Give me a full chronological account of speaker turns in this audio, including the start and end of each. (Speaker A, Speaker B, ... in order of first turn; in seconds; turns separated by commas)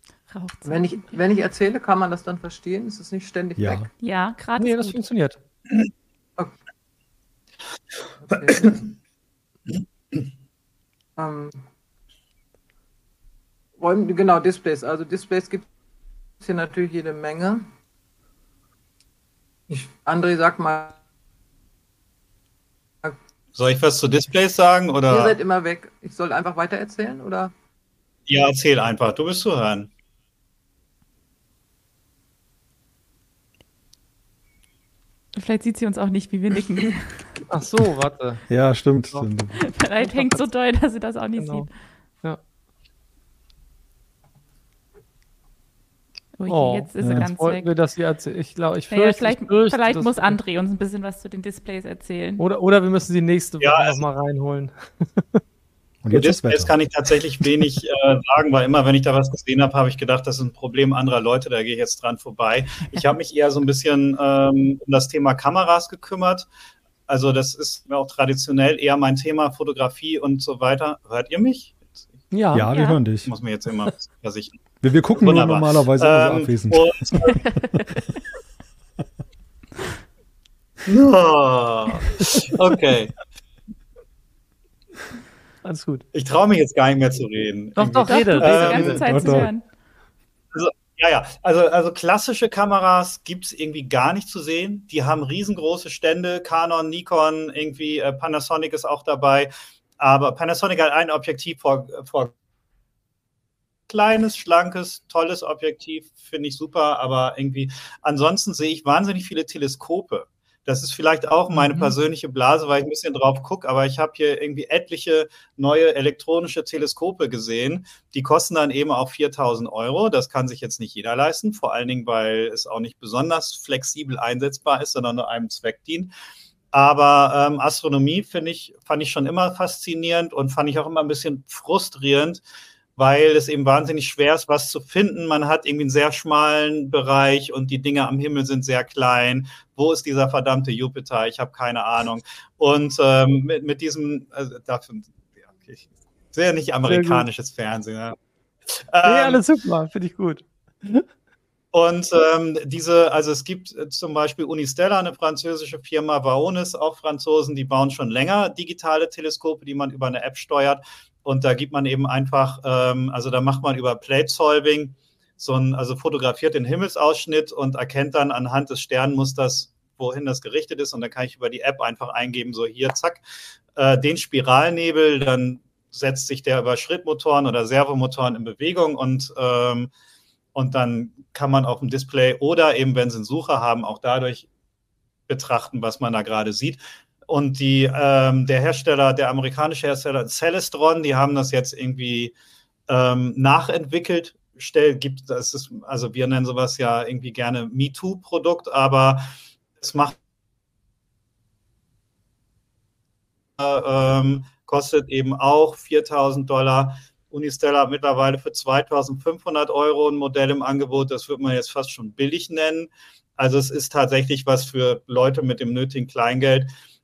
Speaker A: 0.3-1.1, Speaker B: 0.6-3.9, Speaker C: 3.6-3.9, Speaker A: 4.0-5.0, Speaker D: 4.6-5.4, Speaker B: 8.2-8.8, Speaker B: 11.2-11.6, Speaker B: 13.8-15.7, Speaker B: 16.4-17.7, Speaker B: 19.7-21.0, Speaker E: 23.5-25.4, Speaker B: 25.1-27.5, Speaker E: 28.3-29.9, Speaker A: 35.4-37.2, Speaker D: 37.5-38.4, Speaker C: 38.5-39.7, Speaker A: 39.7-41.7, Speaker D: 40.0-40.4, Speaker D: 41.4-41.7, Speaker A: 46.4-47.7, Speaker D: 46.5-50.4, Speaker C: 47.0-47.3, Speaker A: 48.9-52.4, Speaker D: 52.4-55.4, Speaker E: 53.6-54.0, Speaker C: 56.0-56.7, Speaker E: 56.1-66.5, Speaker E: 67.1-71.8, Speaker D: 72.3-72.7, Speaker C: 72.5-73.3, Speaker A: 72.7-73.0, Speaker E: 73.2-74.6, Speaker C: 74.8-76.9, Speaker E: 75.2-77.4, Speaker A: 77.2-77.8, Speaker E: 80.8-83.2, Speaker D: 85.6-86.0, Speaker E: 86.1-89.0, Speaker D: 87.8-89.5, Speaker A: 88.0-89.6, Speaker C: 89.0-89.5, Speaker E: 90.5-102.3, Speaker E: 103.9-126.1, Speaker D: 111.5-111.9, Speaker E: 126.7-132.4, Speaker E: 133.0-148.2, Speaker D: 146.8-147.2, Speaker E: 148.7-149.4, Speaker D: 149.0-151.1, Speaker E: 151.7-173.2, Speaker E: 173.8-179.9, Speaker E: 180.5-184.5, Speaker E: 185.3-192.3, Speaker E: 192.9-200.2, Speaker E: 203.6-216.7